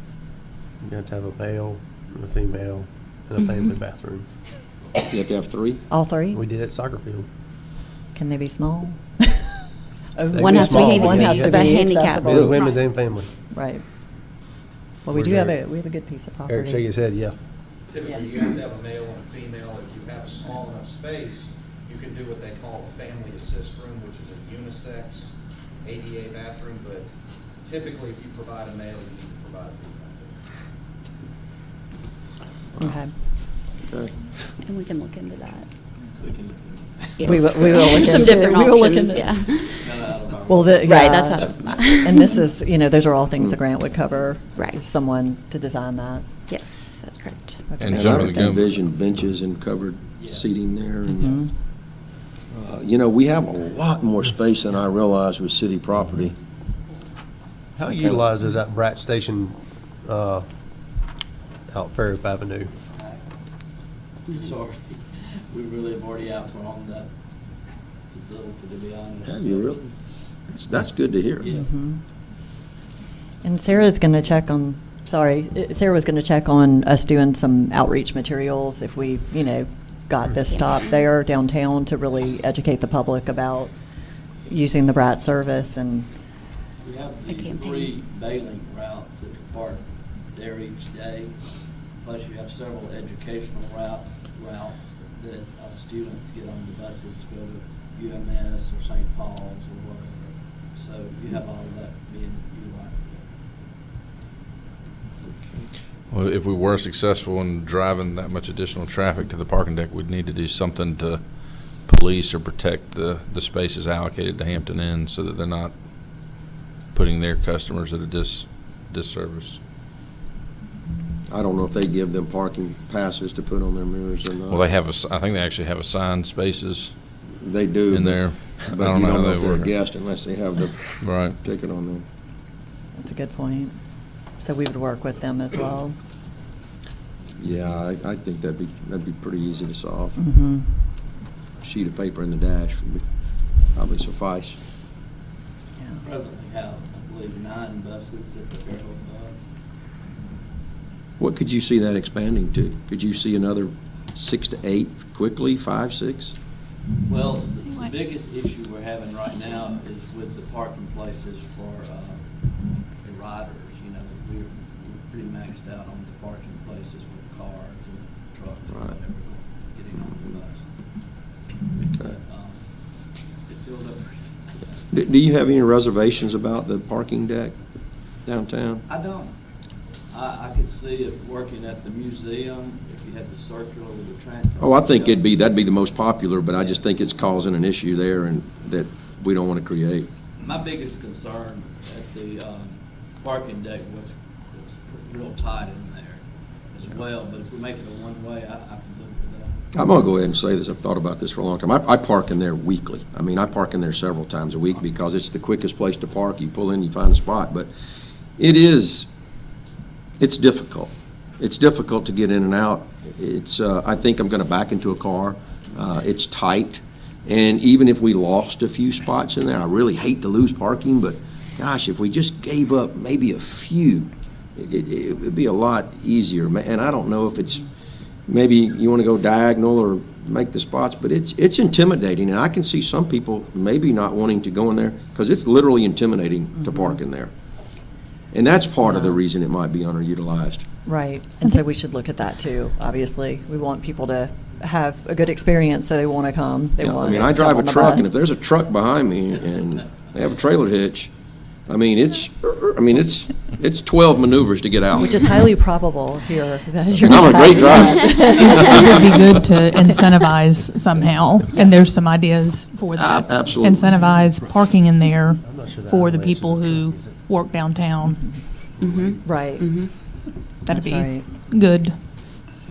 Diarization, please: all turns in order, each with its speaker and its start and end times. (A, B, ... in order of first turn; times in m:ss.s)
0:00.8-0:04.3 A
0:05.0-0:05.8 B
0:05.9-0:06.4 C
0:06.3-0:07.3 A
0:08.1-0:09.5 C
0:10.2-0:12.7 C
0:10.3-0:13.3 A
0:10.4-0:12.8 D
0:13.5-0:13.8 C
0:15.0-0:16.8 C
0:15.1-0:15.6 A
0:16.5-0:17.4 A
0:17.9-0:27.1 E
0:27.6-0:30.5 E
0:32.8-0:33.1 C
0:33.8-0:34.1 B
0:34.6-0:35.7 D
0:36.2-0:37.4 F
0:37.2-0:39.8 D
0:37.2-0:39.7 C
0:39.8-0:41.9 F
0:40.5-0:46.3 C
0:40.8-0:42.4 D
0:44.6-0:44.8 D
0:46.5-0:47.6 D
0:47.7-0:48.2 C
0:47.8-0:48.8 G
0:47.9-0:51.5 B
0:50.2-0:50.5 F
0:51.1-0:51.5 C
0:52.5-0:56.4 B
0:57.8-1:00.5 A
0:57.9-0:58.2 B
1:01.7-1:02.7 A
1:02.8-1:03.2 F
1:04.3-1:07.1 F
1:08.1-1:09.8 F
1:09.2-1:09.9 B
1:10.5-1:11.5 B
1:11.4-1:11.7 F
1:11.5-1:12.0 C
1:13.4-1:23.7 C
1:20.5-1:21.0 D
1:24.5-1:26.1 C
1:26.8-1:31.4 F
1:27.3-1:27.9 D
1:32.0-1:43.3 F
1:45.3-1:45.7 B
1:46.1-1:59.6 G
2:01.3-2:04.6 B
2:04.5-2:06.9 G
2:07.4-2:12.0 B
2:07.9-2:09.8 G
2:11.0-2:11.4 G
2:13.0-2:13.8 C
2:14.4-2:16.0 C
2:17.4-2:20.2 B
2:20.2-2:20.8 C
2:21.6-2:23.0 B
2:23.7-2:24.6 B
2:26.0-2:29.3 F
2:31.2-2:36.4 B
2:37.1-2:42.3 F
2:42.9-2:50.7 F
2:51.8-2:52.2 B
2:52.1-2:52.6 F
2:53.5-2:54.9 F
2:54.9-2:57.6 B
2:58.2-2:58.8 B
2:58.9-2:59.3 F
3:00.1-3:05.4 F
3:04.6-3:10.1 B
3:06.6-3:06.8 F
3:10.4-3:19.6 F
3:19.7-3:27.7 B
3:28.4-3:29.1 B
3:30.2-3:47.7 B
3:48.3-3:57.3 B
3:56.6-3:57.0 C
3:58.3-4:00.7 B
3:58.8-3:59.2 C
4:00.8-4:08.1 C
4:06.8-4:11.1 B
4:11.7-4:15.4 B
4:14.9-4:19.0 C
4:17.0-4:19.4 B
4:18.4-4:28.5 H
4:22.9-4:24.0 B
4:23.9-4:24.3 C
4:25.4-4:27.2 A
4:28.0-4:28.4 C
4:28.8-4:29.9 D
4:29.2-4:30.1 C
4:30.7-4:32.0 H
4:30.7-4:31.3 C